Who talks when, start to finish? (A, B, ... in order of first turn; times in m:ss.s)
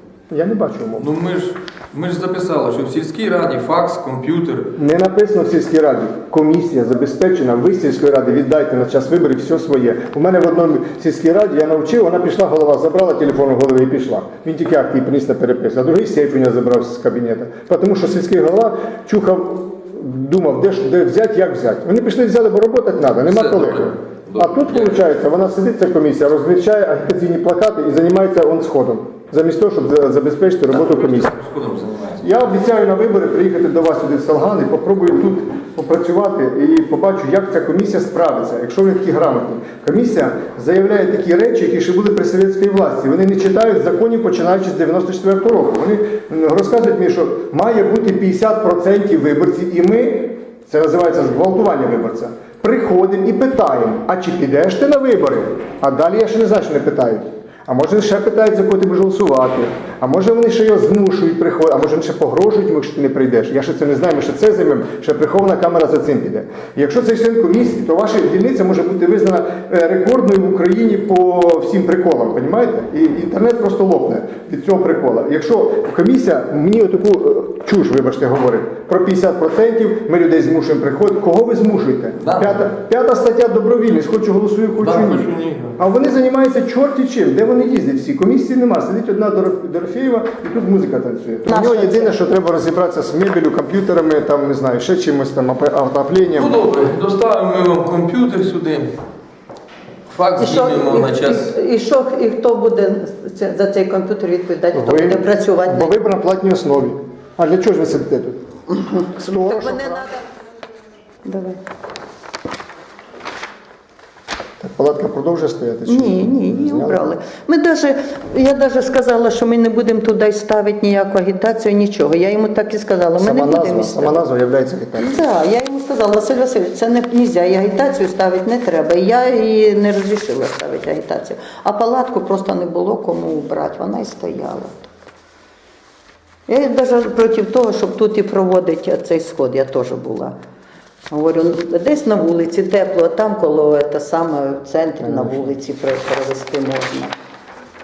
0:00.3-0:01.1 A
0:01.0-0:04.8 B
0:04.8-0:31.3 A
0:23.2-0:25.1 B
0:30.7-0:32.4 B
0:32.2-1:36.6 A
1:22.2-1:22.6 B
1:24.8-1:25.8 B
1:31.5-1:32.1 C
1:36.4-1:38.9 B
1:40.1-1:41.5 B
1:40.4-1:46.0 C
1:44.7-1:48.5 A
1:48.7-1:50.3 C
1:49.2-1:50.1 A
1:51.2-1:51.6 C
1:54.6-1:57.1 A
1:55.9-2:04.2 C
2:03.2-2:05.2 A
2:05.0-2:14.9 C
2:16.5-2:20.4 C
2:21.1-2:27.1 C
2:25.0-2:25.6 A